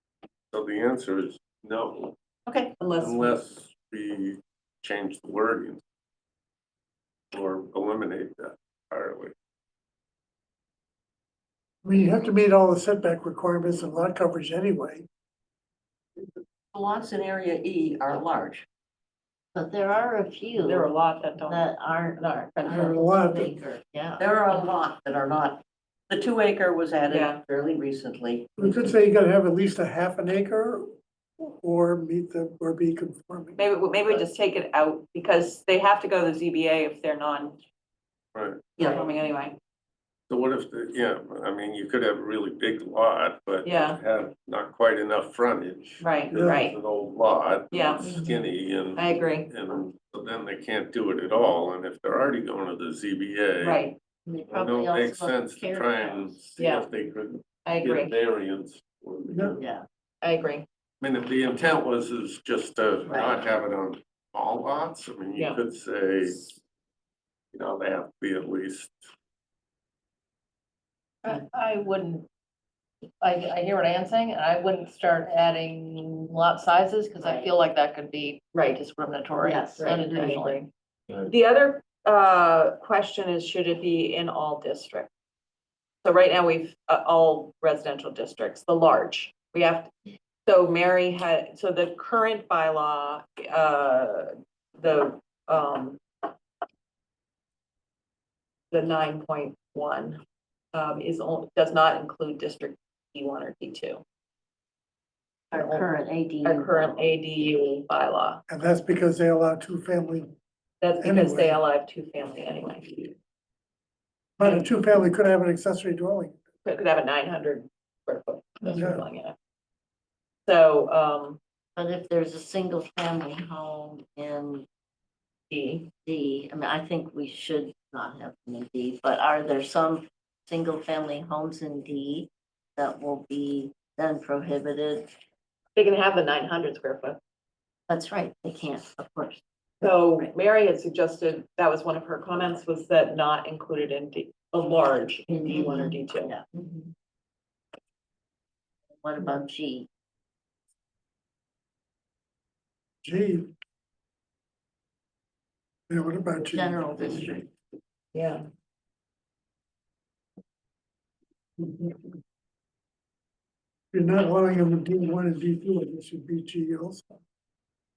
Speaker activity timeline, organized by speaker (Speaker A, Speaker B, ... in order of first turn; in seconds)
Speaker A: 0.5-2.1, 3.0-5.8, 7.3-9.3, 38.3-39.0, 40.3-53.8, 54.5-59.6, 61.0-66.5, 67.5-69.0
Speaker B: 2.5-2.7, 16.7-18.6, 24.2-28.5
Speaker C: 2.8-3.3, 20.6-22.9, 27.1-27.4, 33.6-37.6, 38.8-39.5, 43.6-44.0, 46.0-46.8, 47.7-48.2, 49.0-49.5, 53.6-54.0, 56.6-56.9, 57.6-58.1, 60.2-60.6, 65.3-65.6, 78.5-78.8, 79.8-80.7, 81.2-85.1, 86.0-89.9, 90.5-96.0, 98.7-100.2, 100.7-104.0, 105.5-105.9, 106.4-108.4, 110.8-113.1, 114.4-114.7, 116.6-119.3, 120.5-121.4, 125.5-125.9, 135.8-137.2, 139.8-146.3, 158.1-158.4
Speaker D: 11.8-15.1, 22.7-23.5, 28.6-34.2, 46.3-46.7, 59.3-59.6, 108.5-110.3, 111.0-111.6, 114.4-116.3, 118.7-119.0, 153.0-153.5, 155.9-157.3, 161.6-161.9, 163.9-167.1
Speaker E: 19.5-24.6, 54.2-56.3, 59.6-59.8, 63.1-63.4, 77.2-77.5, 79.4-80.4, 105.5-107.1, 121.8-124.6, 126.0-135.1, 137.9-140.3, 145.3-146.9, 148.9-149.9, 156.3-157.5
Speaker F: 71.2-72.2, 73.2-80.6